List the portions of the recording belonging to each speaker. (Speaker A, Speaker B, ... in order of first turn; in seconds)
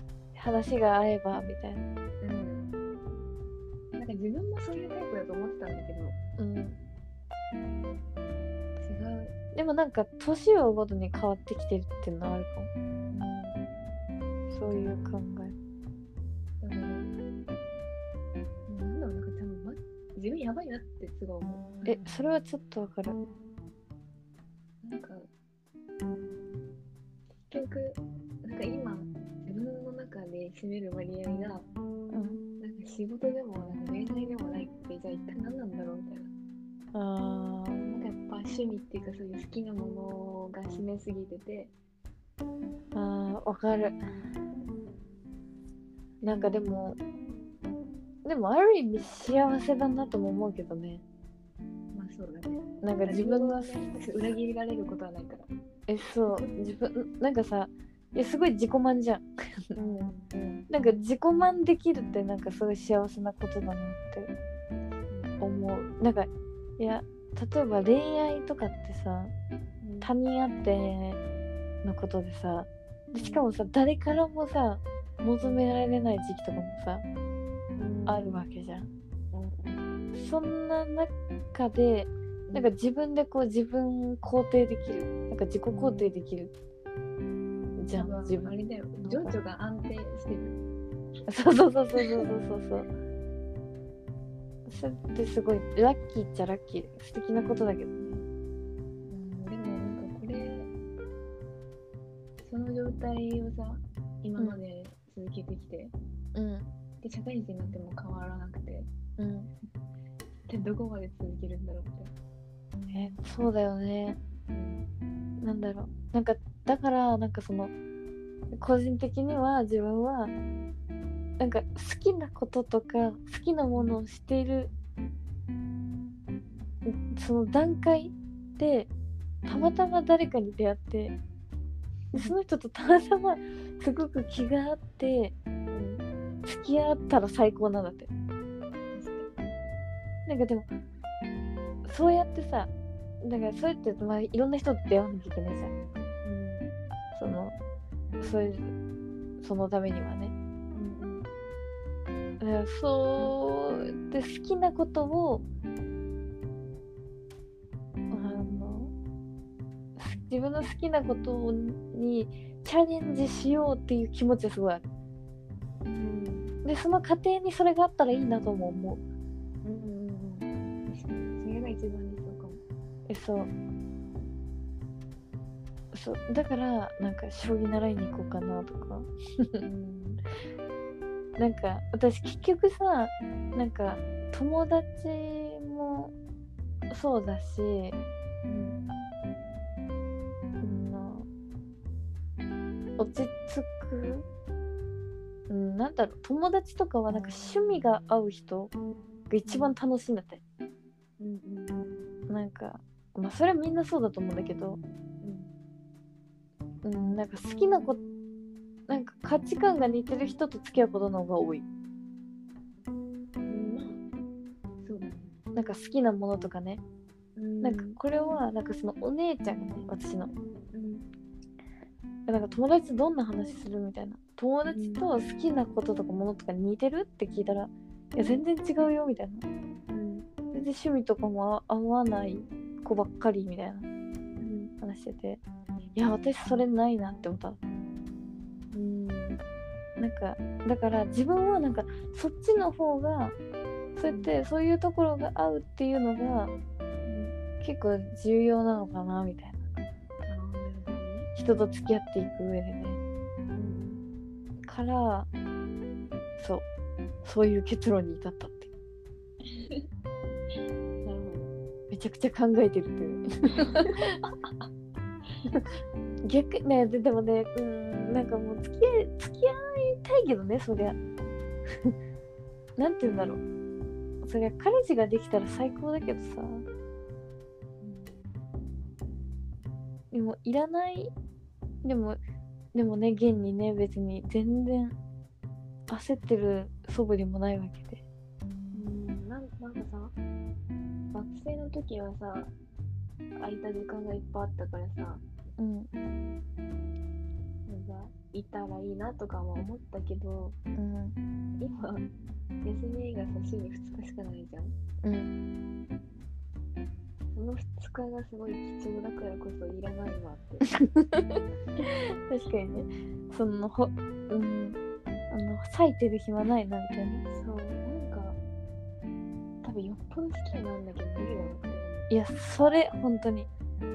Speaker A: 0.3-1.8, 6.4-6.8, 9.5-12.7, 14.5-15.5, 21.8-23.2, 32.1-32.4, 36.9-37.9, 42.9-44.0, 46.2-47.0, 48.2-51.0, 52.8-54.3, 55.9-59.3, 60.7-64.3, 65.4-69.3, 70.0-71.2, 71.8-77.0, 78.1-78.9, 80.1-86.5, 87.8-89.4, 91.3-92.9, 94.7-98.2, 106.3-106.7, 109.2-109.5, 112.9-114.2, 115.4-117.7, 118.5-120.3, 121.4-124.7, 126.8-128.9, 129.4-131.2, 132.1-135.3, 136.4-138.1, 140.2-140.7, 141.8-142.7, 143.2-145.7, 147.1-147.5, 148.2-148.7, 149.4-150.3, 152.4-155.4, 158.1-158.9, 160.0-164.8, 166.6-169.0, 173.1-173.5, 175.9-179.6, 181.4-186.1, 186.9-188.0, 190.6-191.2, 193.0-194.2, 195.5-198.7, 199.3-200.4, 202.3-204.8, 206.8-208.0, 208.9-211.6, 215.5-216.8, 217.6-220.3, 222.3-229.4, 230.5-233.8, 234.8-235.4, 235.9-237.6, 240.0-243.3, 243.9-246.5, 247.6-249.7, 251.3-253.0, 254.7-255.3, 256.4-256.6, 257.2-258.7, 261.9-264.1, 266.2-271.0, 272.8-273.4, 274.2-276.6, 280.1-281.1, 281.8-282.2, 282.7-284.9, 285.9-288.0, 295.6-295.9, 300.8-301.1, 305.0-305.3, 310.8-314.8, 315.3-317.2, 322.1-323.5
Speaker B: 2.2-2.7, 4.0-6.2, 8.8-9.3, 13.1-13.6, 14.6-15.1, 16.6-17.1, 18.7-22.0, 24.8-25.3, 27.5-31.7, 32.6-36.3, 37.9-41.7, 46.2-46.6, 51.9-55.5, 59.8-61.1, 65.0-65.3, 69.8-70.1, 73.1-73.4, 75.4-75.7, 77.8-78.4, 79.3-79.8, 85.7-86.1, 87.9-90.5, 92.0-92.2, 99.1-100.7, 102.4-105.9, 107.0-108.9, 110.5-112.1, 114.5-114.8, 129.5-129.8, 135.7-136.0, 138.9-139.3, 146.2-146.7, 150.7-151.3, 165.9-166.5, 169.6-172.6, 179.6-180.2, 188.4-188.8, 199.4-199.8, 201.2-201.8, 205.2-205.5, 213.5-214.0, 214.8-215.3, 217.3-218.0, 220.7-221.0, 224.7-225.0, 228.2-228.4, 229.9-230.2, 234.4-234.7, 238.7-239.4, 244.0-244.3, 247.0-247.3, 250.3-251.3, 253.5-254.0, 259.4-259.9, 261.0-261.5, 263.9-264.7, 277.8-278.3, 288.7-290.1, 291.1-292.5, 293.4-295.2, 297.7-300.6, 301.6-302.1, 302.6-304.7, 307.3-310.7, 317.3-318.4, 319.6-322.1